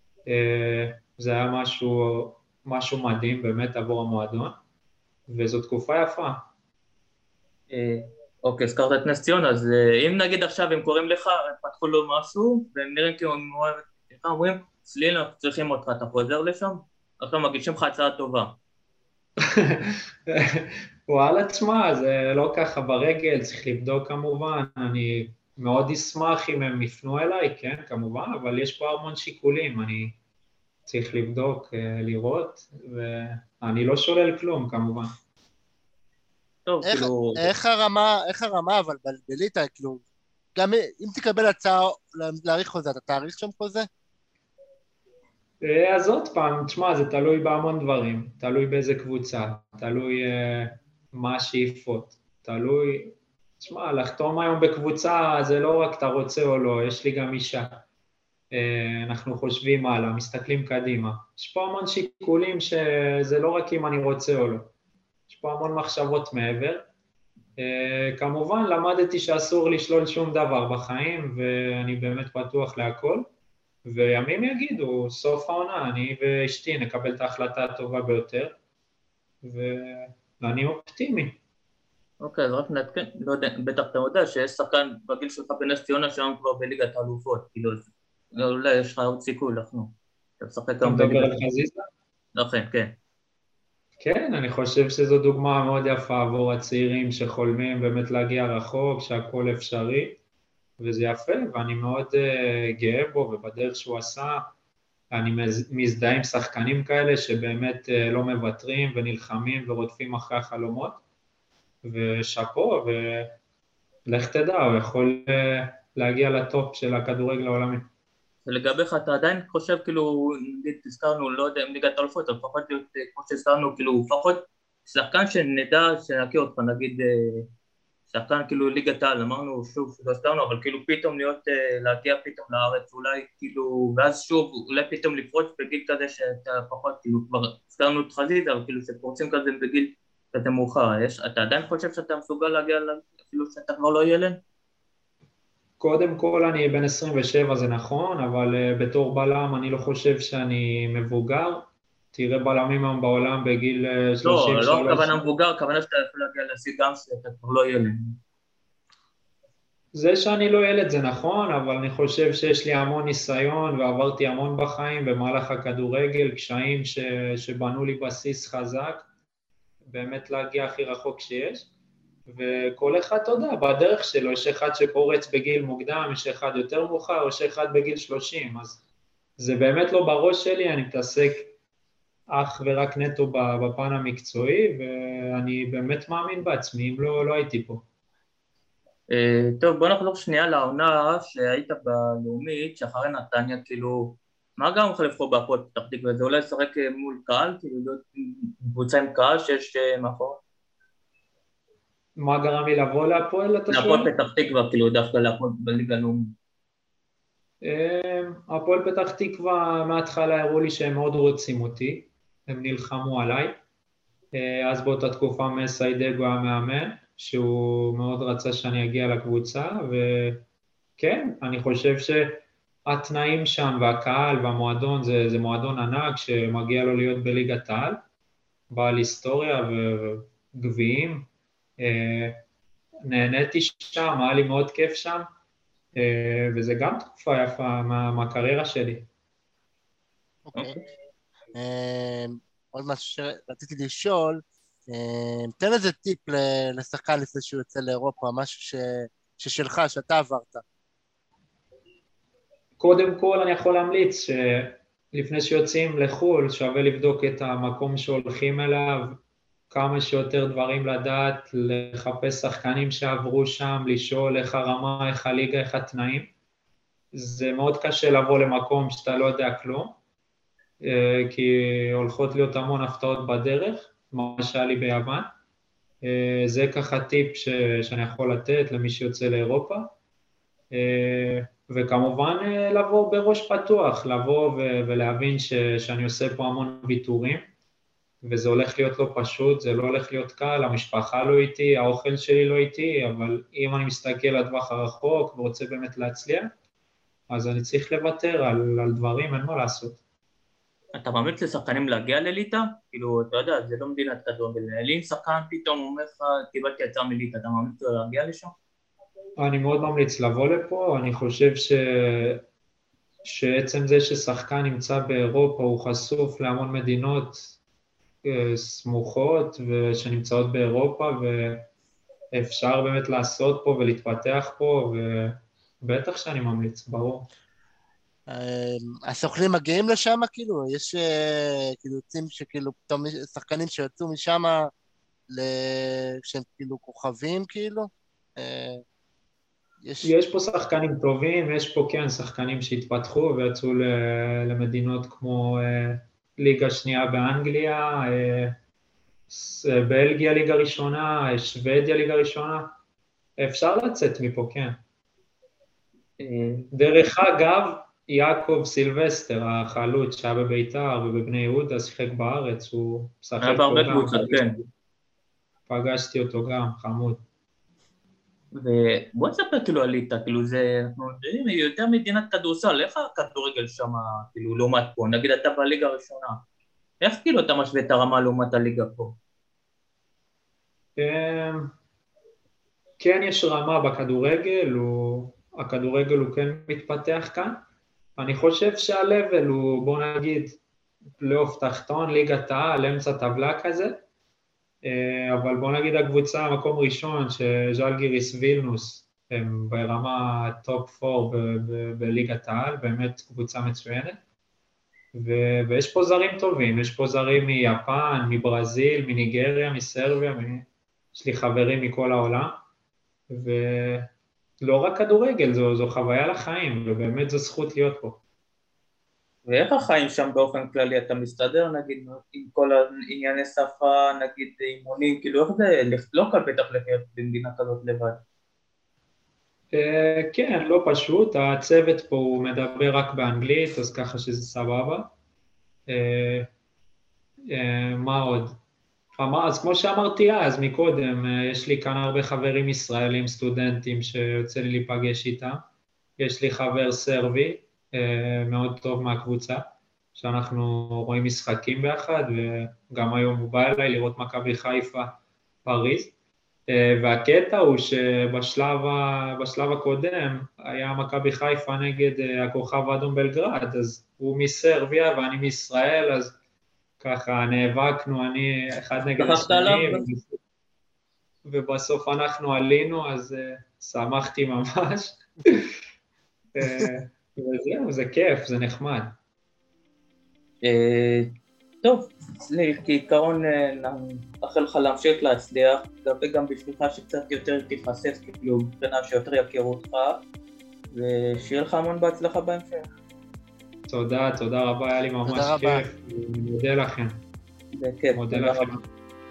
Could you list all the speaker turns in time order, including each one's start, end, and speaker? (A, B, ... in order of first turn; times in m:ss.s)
0:00.3-0:04.6 A
0:05.3-0:06.4 A
0:07.7-0:18.6 B
0:19.4-0:30.2 A
0:30.9-0:35.1 A
0:36.6-0:37.4 B
0:36.8-0:40.0 C
0:40.6-0:43.9 C
0:45.6-0:57.8 A
0:58.5-1:04.7 A
1:05.3-1:06.8 A
1:07.6-1:13.2 A
1:13.9-1:18.5 A
1:19.4-1:21.4 A
1:22.2-1:31.4 B
1:30.8-1:31.8 A
1:32.4-1:33.0 B
1:34.0-1:40.2 A
1:40.8-1:44.5 A
1:45.1-1:51.0 A
1:51.8-1:53.3 A
1:54.1-1:57.9 A
1:58.4-2:07.4 B
2:08.1-2:24.4 B
2:25.8-2:35.2 A
2:34.2-2:38.2 B
2:39.9-2:49.1 A
2:49.9-2:51.7 A
2:52.3-2:58.8 A
2:59.4-3:01.5 A
3:02.3-3:07.8 A
3:09.1-3:20.4 B
3:22.2-3:24.1 A
3:23.7-3:26.3 B
3:27.6-3:33.6 A
3:34.3-3:40.4 A
3:41.0-3:48.0 A
3:48.7-3:51.3 A
3:51.8-3:52.4 A
3:53.1-3:55.2 A
3:56.0-3:59.1 A
4:00.4-4:00.8 C
4:00.6-4:00.8 B
4:01.5-4:10.6 C
4:12.8-4:19.2 A
4:19.7-4:26.3 A
4:27.1-4:29.9 A
4:30.8-4:35.3 A
4:36.0-4:39.9 A
4:40.7-4:47.4 A
4:48.2-4:56.5 A
4:57.3-5:00.0 A
5:00.9-5:08.6 B
5:09.4-5:12.4 A
5:13.2-5:17.4 A
5:18.2-5:21.6 A
5:22.4-5:27.2 A
5:28.3-5:34.7 C
5:35.3-5:38.8 C
5:39.8-5:40.1 C
5:40.0-5:48.6 A
5:49.3-5:52.7 A
5:53.4-5:54.8 A
5:56.2-5:56.7 B
5:56.7-6:04.6 A
6:03.4-6:04.6 B
6:05.7-6:07.2 A
6:08.5-6:16.4 B
6:17.0-6:19.2 B
6:21.0-6:21.7 A
6:23.0-6:27.6 A
6:28.2-6:30.6 A
6:31.2-6:33.9 A
6:34.8-6:44.2 A
6:45.1-6:52.5 A
6:53.3-6:54.1 A
6:54.6-6:58.2 A
6:59.4-7:08.2 B
7:09.7-7:15.1 A
7:15.9-7:16.5 A
7:17.5-7:18.6 A
7:19.2-7:25.6 A
7:26.2-7:36.1 A
7:36.7-7:46.3 A
7:47.0-7:50.3 A
7:49.2-7:50.0 B
7:51.4-7:55.7 A
7:56.6-7:59.1 A
8:00.6-8:10.2 B
8:10.9-8:12.9 B
8:13.9-8:17.2 A
8:15.2-8:15.9 C
8:17.7-8:18.8 B
8:18.2-8:18.8 A